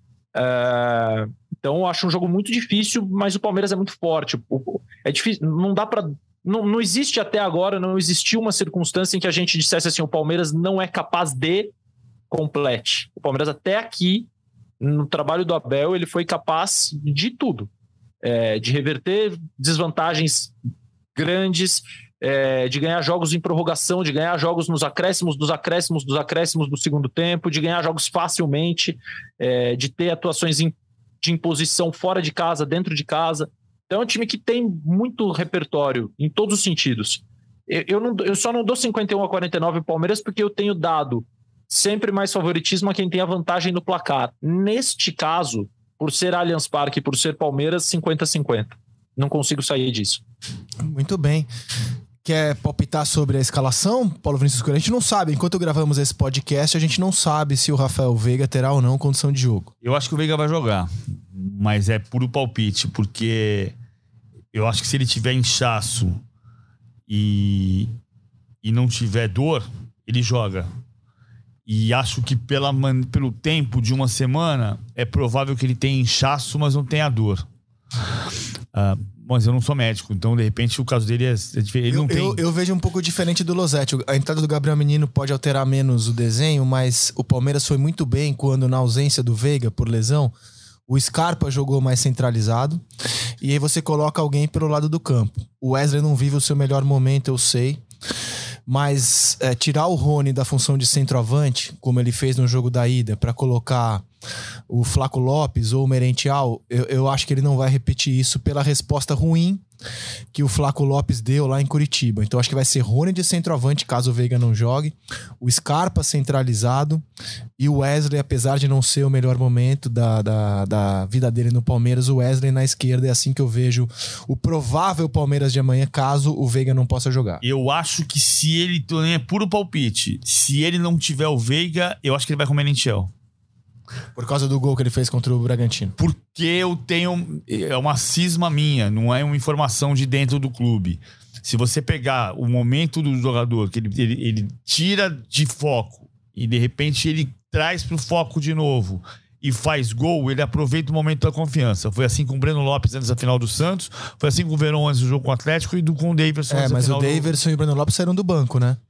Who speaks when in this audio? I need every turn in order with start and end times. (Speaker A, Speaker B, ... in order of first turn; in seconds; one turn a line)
Speaker A: 0.3-11.7
Speaker A: 12.3-14.3
Speaker A: 14.8-17.7
Speaker A: 18.2-20.5
Speaker A: 21.1-50.2
Speaker B: 50.8-51.5
Speaker B: 52.2-59.7
Speaker C: 59.8-63.7
Speaker C: 64.5-66.2
Speaker C: 67.1-67.9
Speaker C: 68.6-70.7
Speaker C: 71.7-77.5
Speaker C: 78.7-82.4
Speaker B: 81.9-90.3
Speaker B: 90.9-92.8
Speaker B: 93.4-97.8
Speaker B: 98.7-104.0
Speaker B: 104.7-109.6
Speaker B: 110.3-117.0
Speaker B: 117.6-127.4
Speaker C: 127.4-133.1
Speaker B: 134.2-135.9
Speaker C: 136.0-157.3
Speaker B: 156.5-158.8